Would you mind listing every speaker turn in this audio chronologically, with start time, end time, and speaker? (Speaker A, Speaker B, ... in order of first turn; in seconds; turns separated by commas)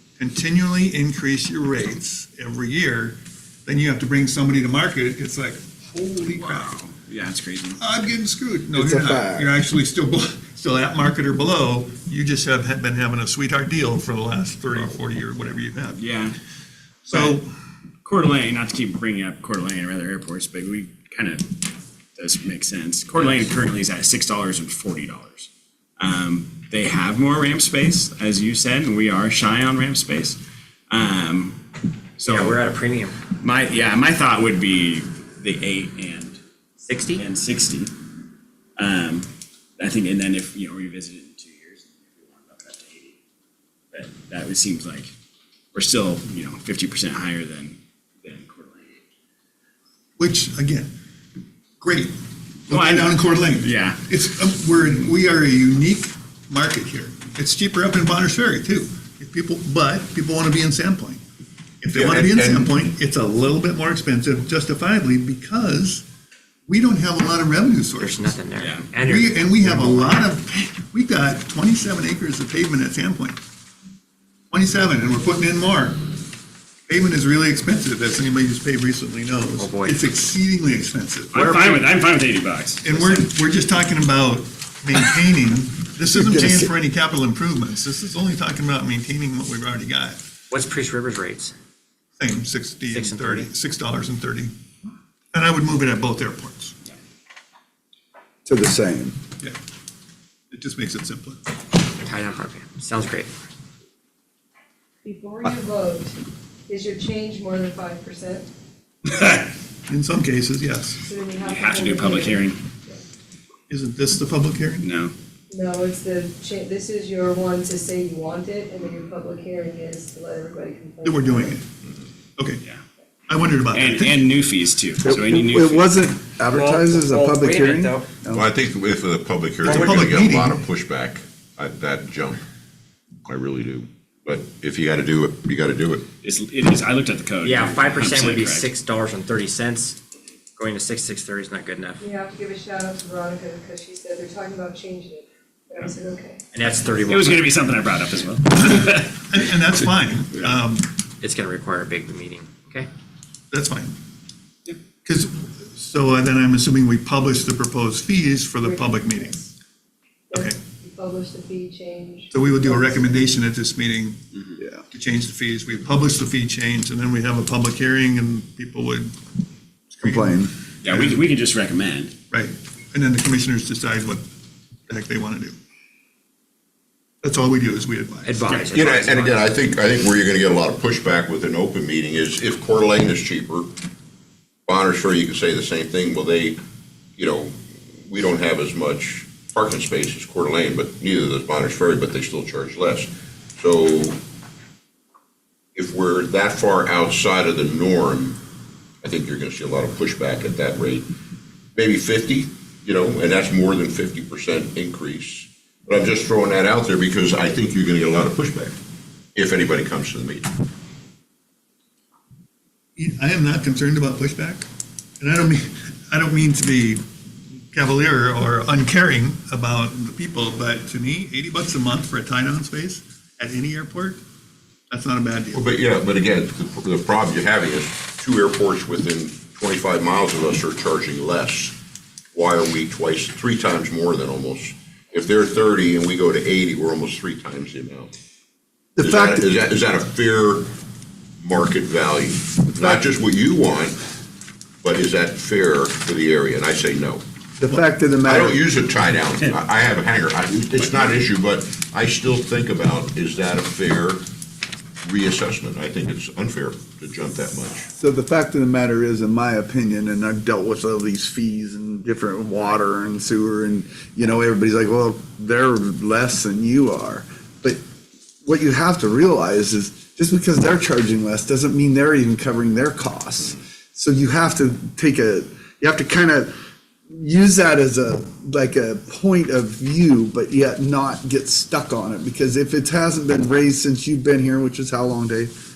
Speaker A: 0.2-6.7, Speaker B: 6.2-7.8, Speaker A: 7.8-16.0, Speaker C: 8.7-9.5, Speaker B: 15.9-16.4, Speaker A: 17.1-17.4, Speaker B: 17.1-17.4, Speaker B: 18.0-31.6, Speaker B: 32.2-32.6, Speaker D: 32.2-33.2, Speaker B: 33.3-36.4, Speaker D: 36.8-37.2, Speaker B: 37.1-37.9, Speaker B: 38.8-43.2, Speaker B: 43.9-45.1, Speaker B: 45.7-49.0, Speaker A: 50.2-50.9, Speaker A: 51.8-52.1, Speaker A: 52.7-61.2, Speaker B: 52.7-54.0, Speaker A: 61.8-66.0, Speaker E: 61.9-62.7, Speaker A: 66.7-68.4, Speaker D: 68.0-70.2, Speaker B: 68.5-68.9, Speaker A: 69.0-73.4, Speaker A: 74.5-76.0, Speaker A: 76.9-81.7, Speaker D: 79.6-80.0, Speaker B: 81.3-83.3, Speaker D: 81.4-81.8, Speaker A: 82.8-90.2, Speaker C: 86.1-86.7, Speaker D: 90.5-91.5, Speaker A: 92.2-94.5, Speaker D: 92.9-93.5, Speaker A: 95.3-96.7, Speaker C: 98.5-99.2, Speaker A: 100.5-101.4, Speaker D: 102.0-103.3, Speaker F: 105.0-106.2, Speaker F: 106.7-108.5, Speaker A: 109.9-111.0, Speaker F: 111.0-113.0, Speaker B: 111.4-112.6, Speaker A: 113.7-114.9, Speaker B: 114.8-115.1, Speaker F: 115.5-121.6, Speaker A: 121.0-121.6, Speaker A: 122.4-122.6, Speaker A: 123.3-124.2, Speaker B: 123.7-125.9, Speaker C: 125.0-128.5, Speaker D: 126.5-128.1, Speaker E: 128.3-132.4, Speaker A: 129.6-130.6, Speaker D: 129.7-129.9, Speaker E: 133.2-136.1, Speaker B: 136.2-138.7, Speaker D: 137.4-140.0, Speaker D: 140.6-142.0, Speaker F: 142.0-146.4, Speaker D: 146.5-147.5, Speaker B: 146.9-149.2, Speaker A: 148.8-150.9, Speaker D: 151.2-152.9, Speaker A: 153.5-153.9, Speaker A: 155.0-159.4, Speaker F: 158.6-159.5, Speaker F: 160.3-163.3, Speaker A: 160.3-160.6, Speaker A: 162.3-164.2, Speaker B: 164.3-164.6, Speaker A: 164.9-169.1, Speaker A: 169.9-171.2, Speaker C: 170.0-170.5, Speaker B: 170.8-172.1, Speaker A: 172.3-174.2, Speaker A: 174.9-175.6, Speaker A: 177.2-178.6, Speaker D: 178.2-179.4, Speaker E: 178.7-183.7, Speaker E: 184.7-186.6, Speaker E: 187.2-194.2, Speaker E: 195.7-198.4, Speaker E: 199.0-201.1, Speaker E: 201.8-208.7, Speaker E: 209.3-210.5, Speaker A: 212.9-214.7, Speaker A: 215.2-217.0, Speaker A: 217.7-224.2, Speaker A: 224.9-225.7, Speaker E: 225.5-231.8, Speaker E: 232.3-238.1, Speaker C: 238.9-239.5, Speaker E: 239.0-240.7, Speaker E: 241.4-244.0, Speaker C: 242.8-243.1, Speaker E: 244.8-247.2, Speaker C: 247.6-248.6, Speaker E: 248.2-254.2, Speaker E: 255.0-257.9, Speaker C: 257.9-267.8, Speaker C: 268.4-276.5, Speaker C: 277.1-285.5